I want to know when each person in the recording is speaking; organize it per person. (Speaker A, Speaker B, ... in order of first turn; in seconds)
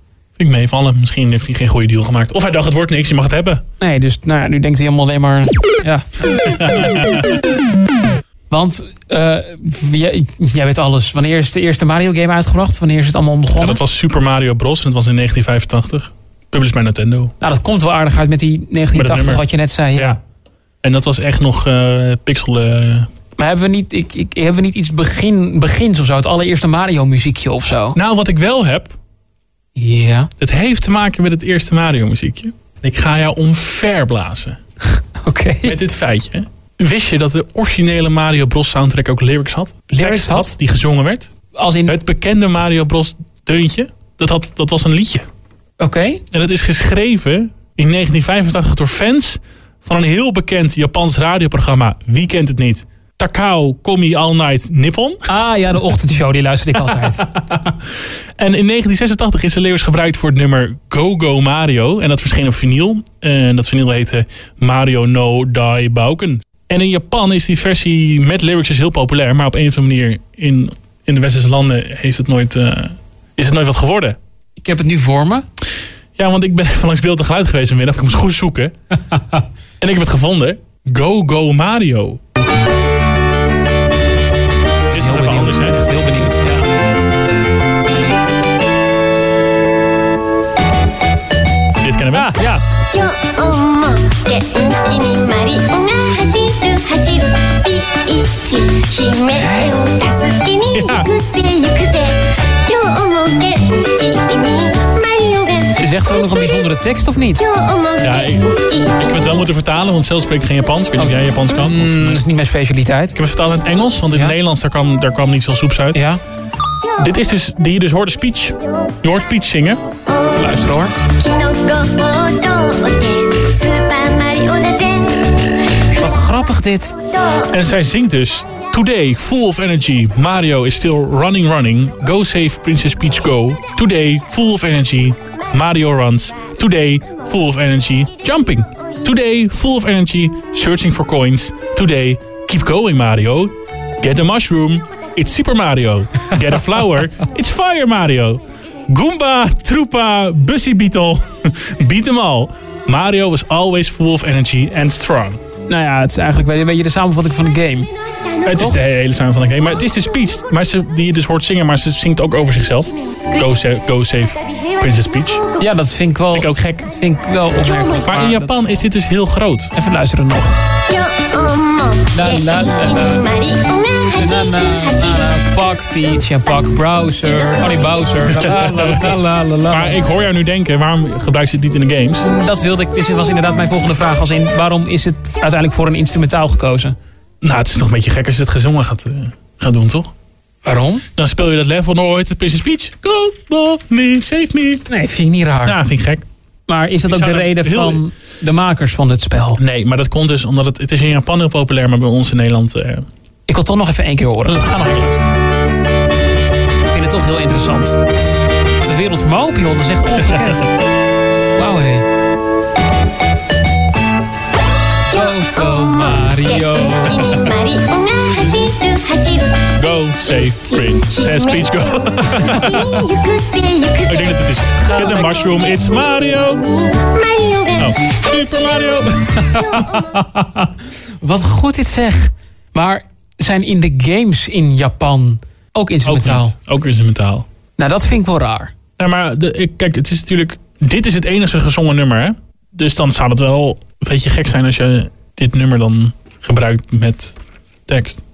Speaker A: 0.4-3.6, 6.4-7.4, 13.6-17.3, 18.9-19.4, 20.8-23.1, 27.9-28.9, 30.4-34.6, 35.6-41.3, 41.9-45.3, 46.3-55.3, 56.9-74.2, 76.2-78.7, 79.8-82.2, 84.9-85.8, 91.8-92.3, 100.7-101.1, 108.0-112.2, 113.1-116.0, 117.0-119.8, 127.5-155.4, 158.4-165.4, 166.3-166.9, 168.0-169.7, 178.3-179.2, 179.7-182.3, 187.4-190.1, 191.2-194.9, 195.6-196.2, 197.1-198.0, 199.6-203.1, 204.4-205.2, 210.2-210.6, 219.8-223.1, 224.1-226.7, 227.8-229.9, 236.0-237.4, 239.0-247.3, 247.9-248.2
Speaker B: 3.8-6.4, 8.5-13.8, 17.4-20.2, 23.4-28.0, 29.8-30.3, 34.9-35.8, 39.9-40.5, 41.5-41.9, 45.8-46.2, 55.3-57.3, 74.6-75.5, 79.1-79.4, 85.0-86.7, 92.1-92.6, 99.3-99.7, 105.8-107.5, 111.0-113.2, 115.9-116.2, 120.3-120.9, 126.0-127.0, 155.7-157.9, 165.6-168.7, 169.7-170.6, 172.1-173.2, 174.2-180.0, 182.2-186.9, 190.6-191.1, 194.9-195.8, 196.7-199.6, 203.5-204.6, 206.9-208.0, 208.8-210.7, 211.6-212.1, 215.1-217.3, 224.8-225.5, 229.5-236.5, 237.8-238.7
Speaker C: 92.9-106.6, 107.4-109.3, 121.0-126.1, 170.9-175.4, 215.1-224.4, 226.7-228.6